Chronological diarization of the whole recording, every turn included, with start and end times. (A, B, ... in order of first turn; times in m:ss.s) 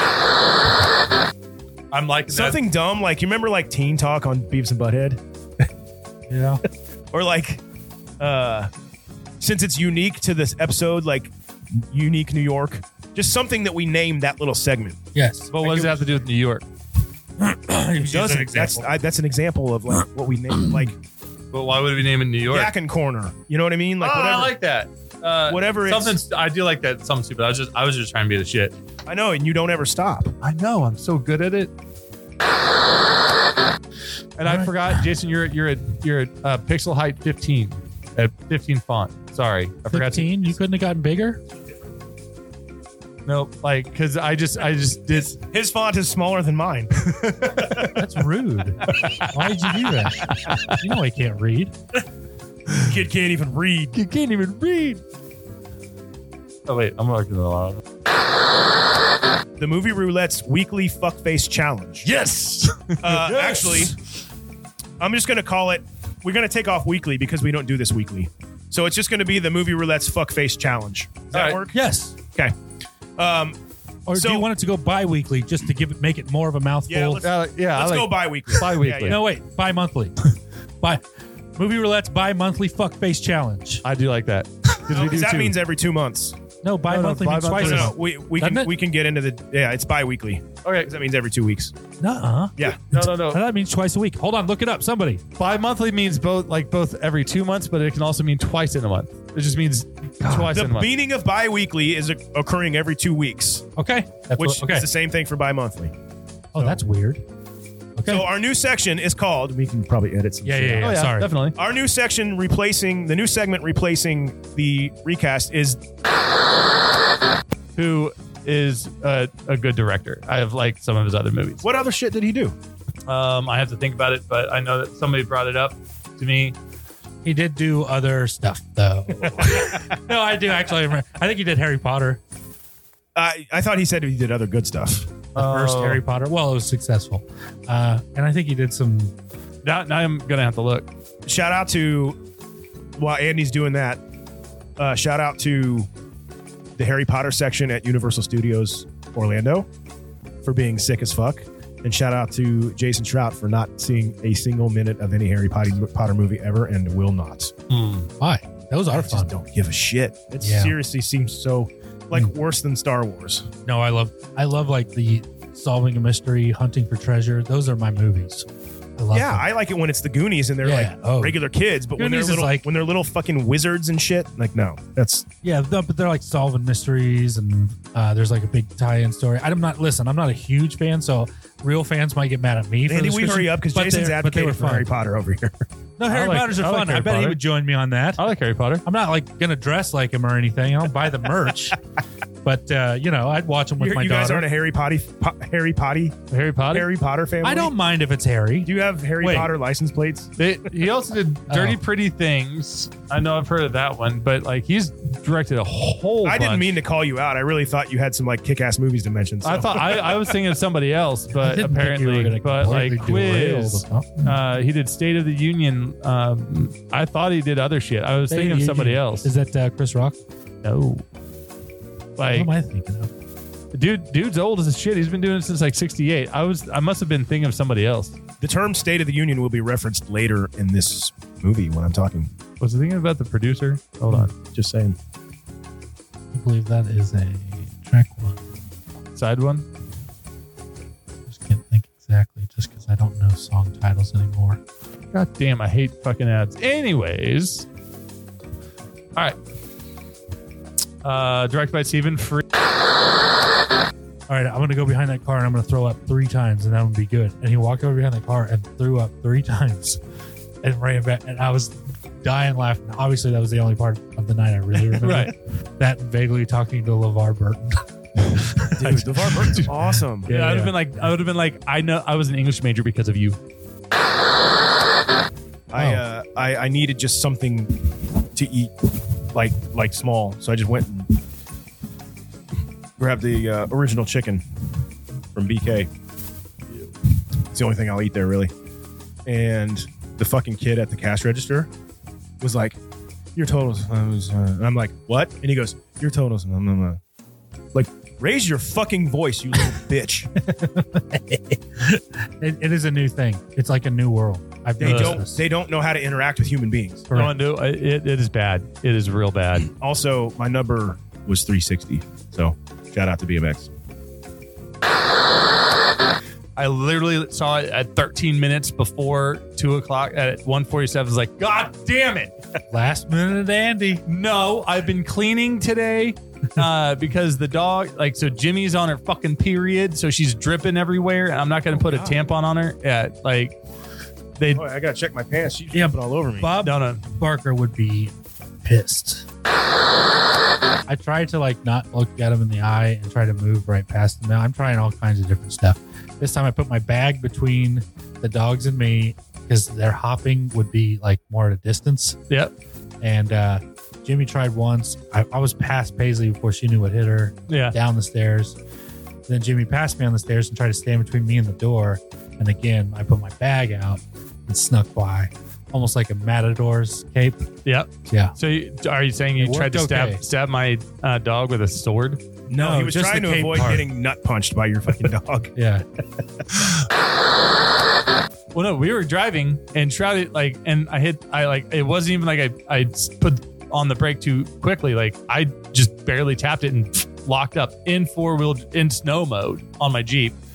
0:01.9-0:02.6 A
0:02.3-0:05.7 B
0:06.3-0:06.6 C
0:07.1-0:07.6 B
0:08.2-0:08.7 B
0:09.4-0:15.0 B
0:15.2-0:15.5 C
0:15.5-0:16.6 A
0:15.6-0:16.2 B
0:17.4-0:18.9 C
0:18.0-0:18.6 A
0:18.5-0:21.0 B
0:21.5-0:22.7 A
0:22.5-0:24.5 B
0:24.0-0:28.8 A
0:25.4-0:26.2 B
0:29.1-0:30.3 B
0:30.4-0:31.7 A
0:34.4-0:40.6 A
0:34.4-0:35.1 C
0:39.9-0:41.4 C
0:43.3-0:45.4 A
0:45.5-0:48.0 B
0:47.1-0:47.8 A
0:48.0-0:50.3 C
0:48.9-0:50.8 A
0:50.8-0:51.7 C
0:52.8-0:54.0 B
0:53.9-0:55.0 A
0:56.7-0:57.8 A
0:59.6-1:02.1 B
1:02.0-1:03.8 A
1:03.0-1:03.9 B
1:03.3-1:03.9 C
1:05.0-1:11.8 B
1:11.3-1:11.6 A
1:11.7-1:12.2 C
1:13.2-1:13.6 B
1:14.1-1:17.2 C
1:14.1-1:14.5 B
1:16.9-1:19.2 B
1:17.2-1:19.2 A
1:19.1-1:20.2 C
1:21.6-1:23.8 C
1:23.8-1:25.6 A
1:24.9-1:26.4 B
1:26.6-1:28.7 C
1:26.9-1:27.9 A
1:27.5-1:31.7 B
1:30.6-1:30.9 A
1:32.0-1:35.2 C
1:32.6-1:32.9 B
1:32.7-1:33.4 A
1:35.4-1:40.9 A
1:40.2-1:40.5 C
1:40.4-1:43.7 B
1:43.8-1:44.9 C
1:44.4-1:45.9 B
1:46.5-1:47.2 C
1:48.0-1:48.3 C
1:48.1-1:50.9 B
1:50.4-1:51.3 C
1:50.8-1:51.6 A
1:51.6-1:55.8 B
1:57.8-2:01.7 A
2:01.6-2:02.6 B
2:03.1-2:06.6 A
2:07.2-2:12.2 C
2:13.2-2:15.2 B
2:15.4-2:16.0 A
2:15.4-2:19.1 C
2:19.6-2:20.9 A
2:21.3-2:22.2 B
2:23.0-2:24.0 B
2:24.8-2:25.9 B
2:26.8-2:29.7 B
2:30.4-2:37.5 B
2:37.7-2:38.1 A
2:38.2-2:39.3 C
2:38.9-2:43.5 B
2:40.4-2:40.8 C
2:43.6-2:49.5 C
2:49.1-2:55.3 B
2:50.6-2:51.4 C
2:52.0-2:52.7 C
2:55.4-3:04.9 C
3:02.9-3:05.7 B
3:06.0-3:08.2 C
3:06.1-3:07.4 A
3:08.2-3:08.8 A
3:08.8-3:11.8 C
3:12.4-3:14.5 C
3:13.8-3:17.7 B
3:16.3-3:16.9 A
3:17.4-3:19.5 C
3:18.6-3:20.4 B
3:20.4-3:26.7 A
3:21.5-3:21.8 C
3:26.2-3:30.3 B
3:29.4-3:39.3 A
3:31.3-3:34.4 C
3:38.3-3:40.2 C
3:40.6-3:41.0 A
3:42.2-3:42.5 A
3:42.2-3:43.1 C
3:43.7-3:48.2 A
3:48.4-3:52.3 B
3:52.6-3:54.3 A
3:54.4-3:55.0 B
3:56.3-3:58.4 C
3:59.2-3:59.7 A
4:01.3-4:04.6 C
4:05.1-4:07.7 A
4:11.0-4:12.4 A
4:14.3-4:20.0 C
4:20.6-4:31.1 C
4:25.0-4:25.3 A
4:28.8-4:30.3 B
4:29.1-4:29.7 A
4:30.2-4:33.4 A
4:35.7-4:41.2 B
4:35.7-4:36.0 C
4:43.0-4:44.4 B
4:45.3-4:45.9 B
4:47.5-4:48.5 B
4:49.3-4:51.7 B
4:52.4-4:52.8 B
4:53.4-4:57.0 B
4:57.7-5:00.3 B
5:00.4-5:05.4 C
5:04.8-5:07.1 B
5:04.8-5:05.2 A
5:07.1-5:07.4 C
5:07.1-5:09.7 A
5:09.8-5:13.7 B
5:16.6-5:22.3 A
5:22.7-5:24.0 C
5:24.1-5:33.6 A
5:31.7-5:32.2 B
5:34.5-5:36.5 B
5:35.7-5:39.3 C
5:36.6-5:37.1 A
5:40.9-5:52.2 C
5:53.0-5:58.6 C
5:57.5-5:57.8 A
5:59.3-6:07.5 C
6:07.6-6:12.2 A
6:08.1-6:08.4 C
6:09.4-6:10.2 C
6:12.5-6:15.5 B
6:12.5-6:13.9 C
6:15.6-6:15.8 C
6:18.5-6:30.4 A